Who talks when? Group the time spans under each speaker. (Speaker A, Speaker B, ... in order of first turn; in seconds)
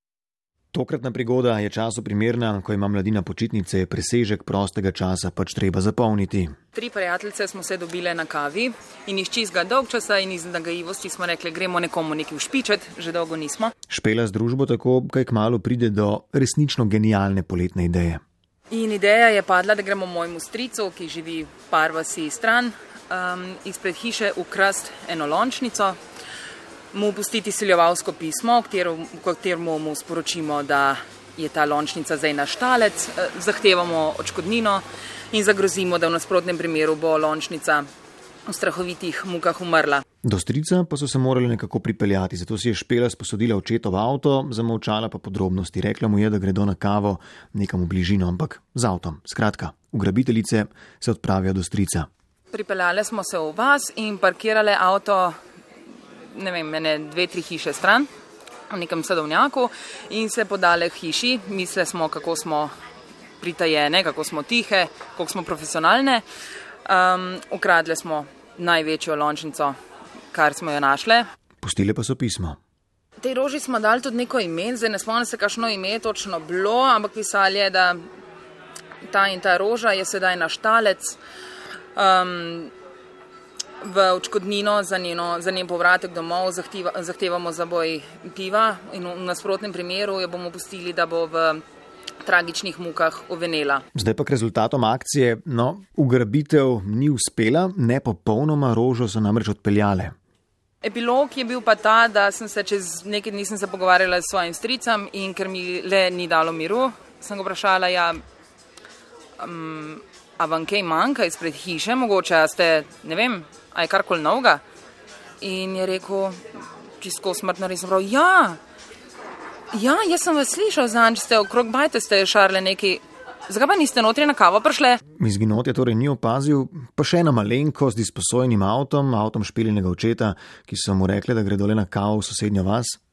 Speaker A: 0.7-6.5, 13.9-18.2, 40.2-52.1, 71.6-72.6, 94.0-100.1, 125.2-133.0
Speaker B: 6.7-13.7, 18.7-26.0, 26.9-37.9, 38.5-40.0, 52.5-55.3, 56.3-58.1, 58.7-62.7, 63.4-66.2, 66.9-69.8, 70.3-71.2, 73.2-78.0, 79.1-81.2, 82.0-82.7, 83.8-91.6, 92.2-93.8, 100.8-108.2, 109.4-114.6, 115.4-116.4, 117.0-118.6, 119.7-125.0